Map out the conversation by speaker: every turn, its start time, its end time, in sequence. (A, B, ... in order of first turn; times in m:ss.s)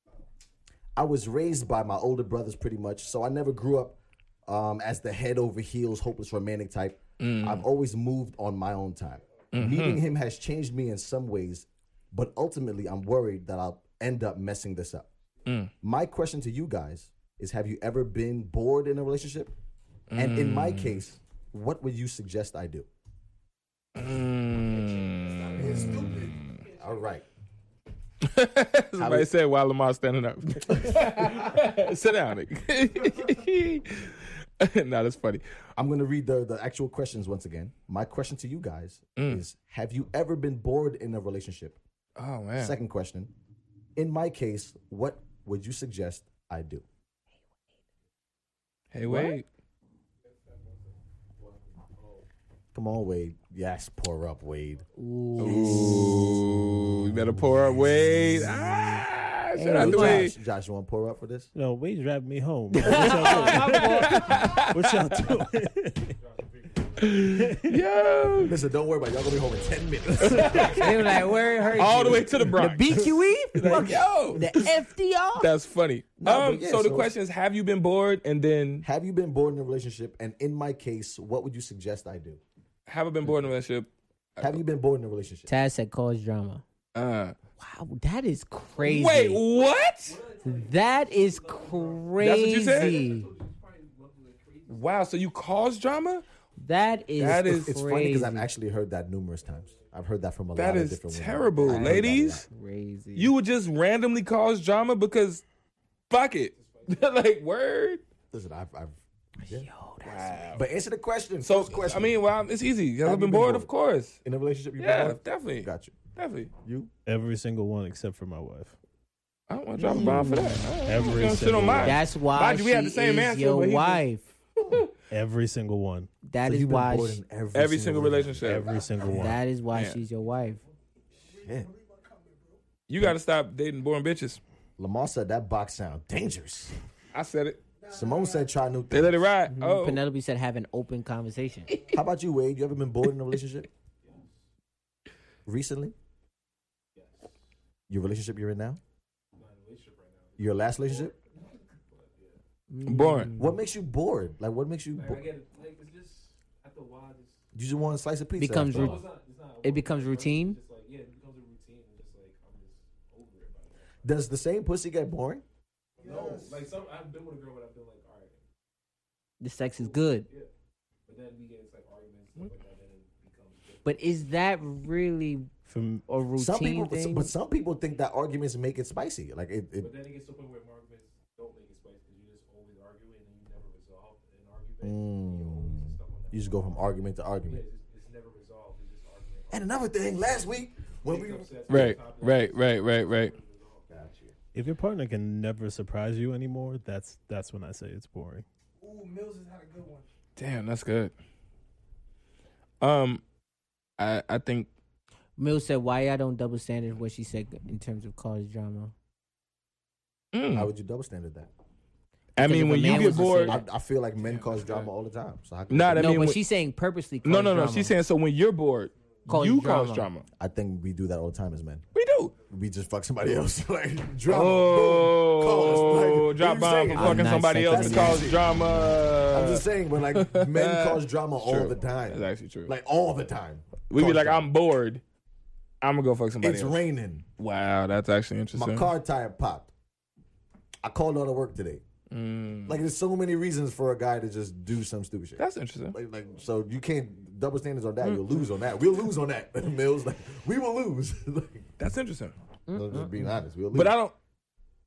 0:01.0-0:15.1 A
0:07.2-0:07.6 B
0:09.5-0:10.0 B
0:15.4-0:15.7 B
0:15.8-0:19.6 A
0:20.1-0:21.0 B
0:20.1-0:22.9 A
0:24.0-0:26.6 B
0:25.6-0:26.1 A
0:25.7-0:26.4 C
0:26.7-0:27.2 A
0:28.2-0:35.4 B
0:29.0-0:29.3 A
0:30.7-0:31.1 A
0:35.8-0:41.8 A
0:39.2-0:39.4 B
0:42.2-0:42.8 B
0:42.6-0:43.3 A
0:44.0-0:46.8 A
0:48.9-0:49.5 B
0:49.1-0:49.3 A
0:50.3-0:52.2 D
0:52.7-0:54.8 A
0:55.0-0:56.4 E
0:55.4-1:00.3 B
0:55.4-0:56.4 A
0:59.6-1:00.3 E
0:59.7-1:01.5 A
1:01.6-1:06.1 F
1:02.7-1:04.3 E
1:02.9-1:05.2 B
1:06.0-1:07.4 D
1:07.0-1:08.6 B
1:07.3-1:07.8 F
1:08.4-1:11.0 A
1:10.2-1:11.2 B
1:10.4-1:12.3 D
1:10.7-1:15.5 E
1:11.7-1:14.7 B
1:15.4-1:18.8 B
1:16.2-1:17.1 A
1:18.8-1:22.4 A
1:22.9-1:24.6 B
1:24.4-1:25.5 A
1:25.5-1:26.6 E
1:27.0-1:27.3 B
1:27.6-1:29.4 E
1:28.8-1:30.2 B
1:29.4-1:35.1 D
1:30.4-1:33.3 E
1:32.2-1:33.0 B
1:34.7-1:36.2 B
1:36.6-1:38.5 E
1:37.2-1:37.7 B
1:37.3-1:42.4 A
1:39.4-1:39.9 D
1:40.6-1:42.4 B
1:41.7-1:43.3 E
1:43.2-1:45.4 B
1:46.1-1:48.0 B
1:46.5-1:47.3 D
1:48.3-1:49.7 A
1:49.4-1:50.4 E
1:50.0-1:50.6 B
1:50.5-1:52.2 A
1:51.4-1:54.2 B
1:53.0-1:53.7 A
1:54.2-1:56.0 A
1:54.8-1:56.5 B
1:56.6-1:56.9 A
1:57.0-1:58.8 F
1:59.5-2:04.0 B
1:59.8-2:00.7 E
2:00.8-2:02.0 F
2:01.7-2:04.3 E
2:04.6-2:04.9 B
2:05.1-2:06.1 F
2:06.3-2:07.2 E
2:06.4-2:08.9 A
2:07.5-2:08.7 B
2:08.4-2:09.4 F
2:09.1-2:10.6 E
2:09.7-2:10.0 B
2:11.2-2:12.6 C
2:11.4-2:11.7 A
2:12.9-2:14.4 B
2:14.8-2:16.7 A
2:17.1-2:17.6 B
2:17.8-2:18.5 C
2:17.9-2:19.2 A
2:18.9-2:20.0 B
2:19.5-2:21.8 E
2:21.9-2:23.7 A
2:24.0-2:24.4 D
2:25.4-2:26.0 A
2:27.0-2:27.4 D
2:27.9-2:28.8 A
2:29.3-2:32.4 D
2:30.4-2:31.1 A
2:32.7-2:33.6 E
2:32.9-2:33.3 B
2:33.3-2:35.2 A
2:34.9-2:37.4 D
2:37.5-2:39.0 A
2:38.4-2:39.1 E
2:38.6-2:44.2 D
2:39.6-2:40.6 E
2:44.0-2:45.4 A
2:46.0-2:48.4 D
2:46.0-2:46.6 C
2:49.4-2:50.3 E
2:49.7-2:50.5 D
2:51.1-2:54.2 D
2:53.8-2:55.5 E
2:55.6-2:56.0 F
2:56.1-2:57.3 E
2:56.4-2:59.9 A
2:59.8-3:09.9 D
3:04.8-3:07.6 A
3:09.5-3:11.8 A
3:11.0-3:13.9 D
3:11.7-3:13.3 B
3:13.9-3:14.4 A
3:14.5-3:18.4 F
3:18.8-3:20.1 C
3:20.4-3:21.1 B
3:22.8-3:23.2 B
3:24.0-3:24.7 B
3:25.4-3:28.9 E
3:30.3-3:30.7 B
3:30.5-3:31.5 A
3:32.4-3:33.6 B
3:32.4-3:33.6 E
3:32.8-3:36.3 A
3:35.7-3:36.4 B
3:35.9-3:37.9 E
3:37.2-3:40.2 B
3:39.3-3:40.1 E
3:40.4-3:41.8 A
3:41.9-3:42.3 B
3:42.5-3:48.6 A
3:44.3-3:52.7 B
3:46.9-3:48.3 E
3:49.3-3:54.5 A
3:53.9-3:55.0 B
3:55.8-3:56.8 B
3:56.4-3:57.2 A
3:57.4-3:58.9 B
3:58.5-3:59.7 A
4:00.8-4:01.8 A
4:02.1-4:02.8 B
4:02.6-4:11.7 A
4:05.4-4:06.0 B
4:11.8-4:12.3 B
4:12.7-4:13.2 E
4:12.7-4:13.9 A
4:13.7-4:14.1 B